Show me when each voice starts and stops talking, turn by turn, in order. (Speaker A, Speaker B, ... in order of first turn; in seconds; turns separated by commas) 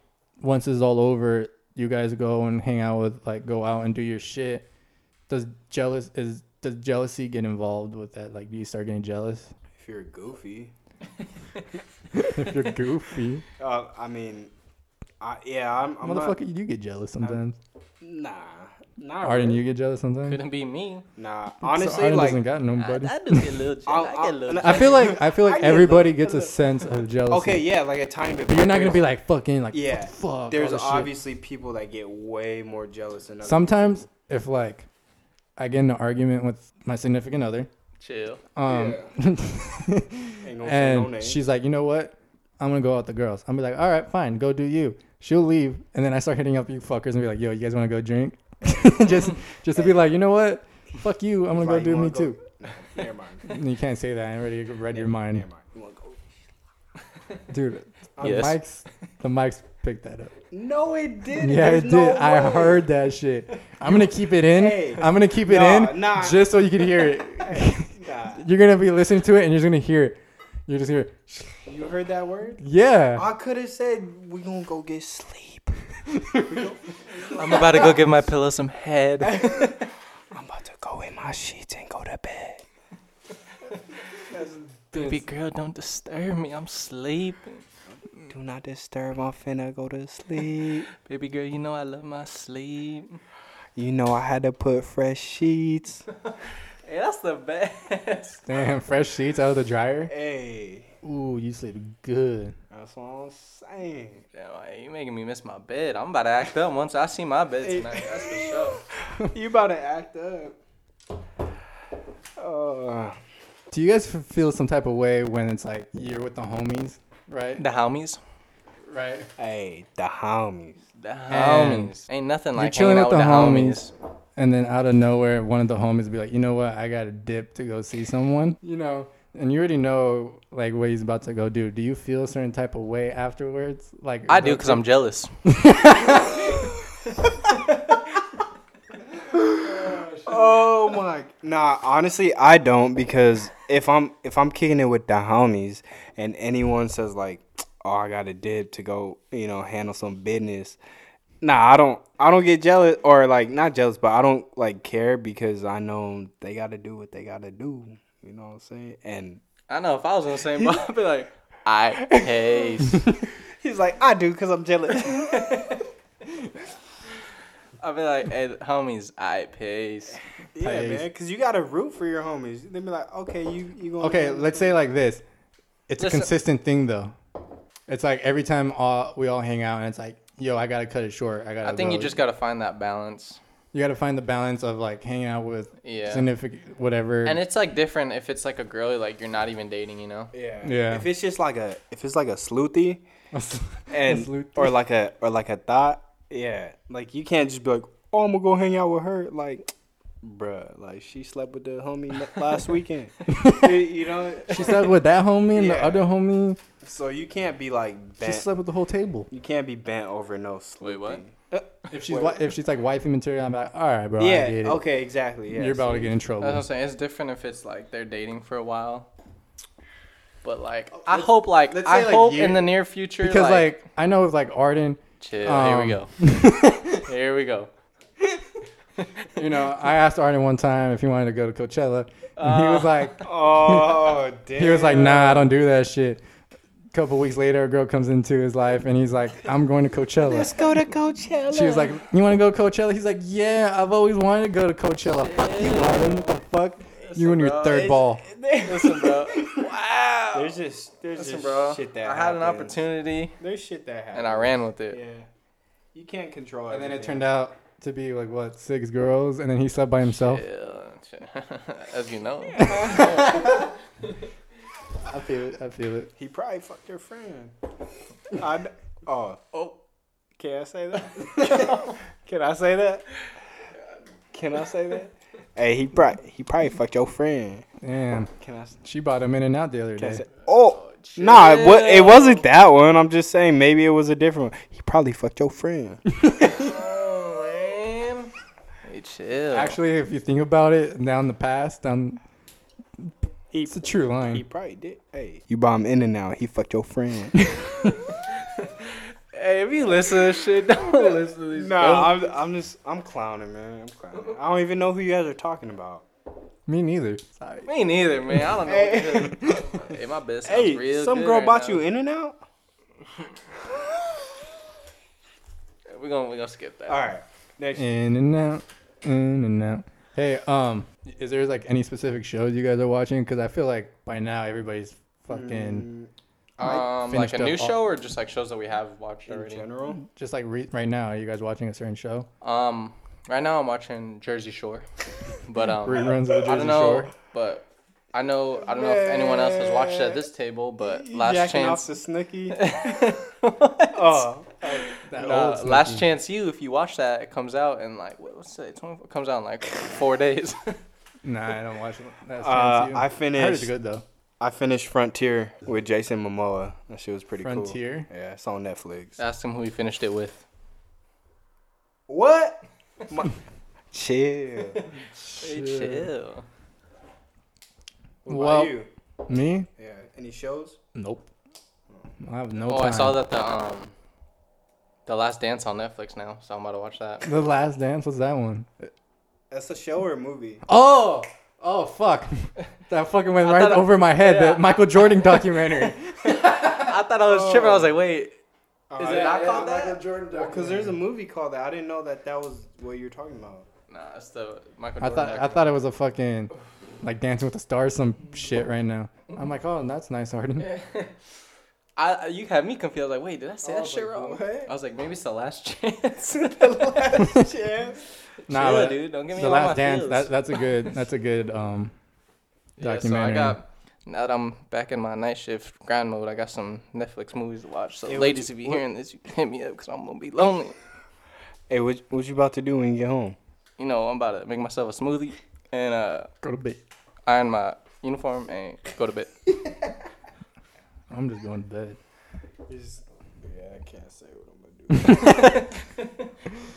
Speaker A: 0.4-4.7, Speaker A: 5.3-9.5, Speaker B: 9.8-10.7, Speaker A: 12.1-13.4, Speaker B: 13.6-14.5, Speaker B: 15.2-16.4, Speaker A: 16.0-17.6, Speaker B: 18.0-19.6, Speaker A: 19.2-20.4, Speaker C: 20.2-21.0, Speaker B: 21.2-22.4, Speaker A: 21.6-23.6, Speaker C: 22.8-25.0, Speaker B: 23.9-26.5, Speaker A: 24.6-27.7, Speaker B: 27.3-29.1, Speaker A: 28.5-31.1, Speaker B: 29.7-33.9, Speaker A: 33.4-34.9, Speaker A: 35.6-37.7, Speaker C: 38.0-38.4, Speaker A: 38.5-52.4, Speaker B: 38.6-39.1, Speaker B: 40.4-41.4, Speaker B: 51.5-53.5, Speaker A: 53.5-55.5, Speaker B: 54.9-56.2, Speaker A: 57.5-60.4, Speaker C: 58.2-58.6, Speaker B: 60.5-62.9, Speaker A: 61.4-71.7, Speaker B: 64.4-68.5, Speaker B: 71.6-78.0, Speaker A: 72.6-73.2, Speaker A: 76.2-76.6, Speaker C: 77.3-79.8, Speaker B: 79.3-79.8, Speaker B: 80.3-82.6, Speaker B: 84.3-84.8, Speaker A: 84.9-85.2, Speaker C: 85.0-87.6, Speaker B: 88.3-90.9, Speaker C: 91.0-93.2, Speaker B: 93.8-96.0, Speaker C: 96.8-98.4, Speaker A: 98.5-100.1, Speaker B: 100.1-100.9, Speaker A: 101.0-102.6, Speaker B: 102.7-104.2, Speaker C: 104.3-108.8, Speaker B: 107.6-108.7, Speaker B: 109.2-110.5, Speaker B: 112.4-113.2, Speaker A: 113.7-117.6, Speaker C: 117.6-118.2, Speaker A: 118.9-119.3, Speaker B: 119.4-120.8, Speaker C: 121.0-123.9, Speaker A: 121.3-121.9, Speaker A: 122.5-134.8, Speaker C: 134.3-135.3, Speaker A: 135.4-136.6, Speaker B: 139.3-150.8, Speaker A: 139.8-140.3, Speaker B: 151.4-159.4, Speaker C: 159.7-163.0, Speaker B: 162.0-162.6, Speaker B: 163.6-165.8, Speaker C: 165.3-165.8, Speaker C: 167.8-170.2, Speaker B: 170.5-174.8, Speaker A: 170.6-171.1, Speaker A: 174.0-175.2, Speaker A: 175.9-177.1, Speaker C: 176.0-176.3, Speaker A: 177.9-182.2, Speaker C: 181.6-183.4, Speaker A: 183.7-187.4, Speaker C: 185.8-186.3, Speaker C: 187.2-190.3, Speaker B: 190.3-193.0, Speaker A: 190.6-191.1, Speaker A: 193.3-194.8, Speaker B: 193.9-199.7, Speaker B: 200.2-205.0, Speaker A: 203.3-203.9, Speaker A: 204.5-206.6, Speaker B: 205.5-206.1, Speaker B: 206.8-208.5, Speaker A: 208.2-209.3, Speaker B: 209.3-212.4, Speaker C: 210.8-211.2, Speaker A: 211.9-214.8, Speaker B: 214.2-216.2, Speaker A: 215.5-216.7, Speaker C: 216.4-219.1, Speaker C: 220.4-223.8, Speaker A: 221.0-227.0, Speaker C: 225.2-226.1, Speaker C: 227.1-227.7, Speaker A: 229.3-236.2, Speaker C: 232.4-233.2, Speaker B: 233.2-235.5, Speaker A: 236.9-240.6, Speaker B: 240.2-242.0, Speaker A: 241.5-248.2, Speaker C: 245.2-246.3, Speaker C: 247.0-248.0, Speaker B: 247.7-249.7, Speaker C: 248.6-250.5, Speaker B: 250.3-255.3, Speaker C: 251.2-253.3, Speaker C: 254.1-255.0, Speaker B: 255.9-257.3, Speaker A: 256.7-260.4, Speaker C: 260.1-263.6, Speaker A: 262.6-263.6, Speaker B: 262.7-263.4, Speaker A: 265.0-266.1, Speaker B: 266.2-267.5, Speaker B: 268.3-269.4, Speaker B: 270.4-273.2, Speaker C: 271.7-271.9, Speaker B: 274.3-277.6, Speaker A: 277.8-278.3, Speaker B: 278.4-278.8, Speaker A: 278.8-280.2, Speaker B: 280.0-286.0, Speaker C: 280.7-282.4, Speaker A: 286.2-286.7, Speaker C: 286.4-288.3, Speaker C: 288.8-289.8, Speaker A: 289.5-292.2, Speaker B: 293.5-293.8, Speaker A: 293.7-294.4, Speaker B: 294.3-298.1, Speaker C: 298.4-302.1, Speaker B: 300.7-306.1, Speaker A: 306.7-307.7, Speaker C: 307.6-311.8, Speaker B: 308.6-309.6, Speaker B: 310.4-312.4, Speaker C: 315.9-317.1, Speaker B: 316.9-317.9, Speaker A: 317.7-325.9, Speaker B: 325.3-326.1, Speaker C: 326.6-329.6, Speaker A: 326.6-327.8, Speaker B: 329.3-330.0, Speaker A: 330.0-332.3, Speaker C: 332.4-334.8, Speaker C: 335.4-341.9, Speaker A: 335.8-337.1, Speaker B: 338.6-340.2, Speaker B: 340.8-342.8, Speaker C: 342.5-344.3, Speaker B: 343.9-345.0, Speaker A: 345.1-346.1, Speaker C: 345.2-350.8, Speaker A: 351.2-354.0, Speaker B: 352.4-353.7, Speaker B: 354.4-359.2, Speaker A: 357.4-358.1, Speaker C: 359.2-360.4, Speaker B: 362.1-363.3, Speaker B: 363.9-364.8, Speaker A: 365.2-366.1, Speaker C: 365.4-366.4, Speaker B: 368.2-368.9, Speaker A: 368.3-369.7, Speaker B: 369.8-370.8, Speaker A: 370.9-371.3, Speaker A: 372.2-373.2, Speaker C: 372.7-373.9, Speaker C: 375.1-377.3, Speaker A: 377.2-378.9, Speaker B: 379.5-380.6, Speaker A: 380.6-386.9, Speaker C: 383.4-385.2, Speaker C: 386.2-388.3, Speaker B: 387.2-388.0, Speaker B: 388.9-393.7, Speaker C: 388.9-390.0, Speaker A: 389.0-391.0, Speaker C: 393.9-395.7, Speaker A: 395.0-396.5, Speaker A: 397.0-400.7, Speaker C: 400.6-401.1, Speaker C: 401.9-406.9, Speaker B: 403.6-404.7, Speaker B: 406.3-408.0, Speaker A: 407.2-407.5, Speaker C: 408.5-410.3, Speaker A: 408.5-411.9, Speaker A: 412.8-413.6, Speaker C: 412.8-420.8, Speaker B: 418.1-418.8, Speaker B: 421.7-423.4, Speaker C: 423.8-426.3, Speaker A: 426.4-426.8, Speaker C: 427.3-429.4, Speaker A: 431.1-432.0, Speaker B: 432.7-435.6, Speaker A: 434.9-435.6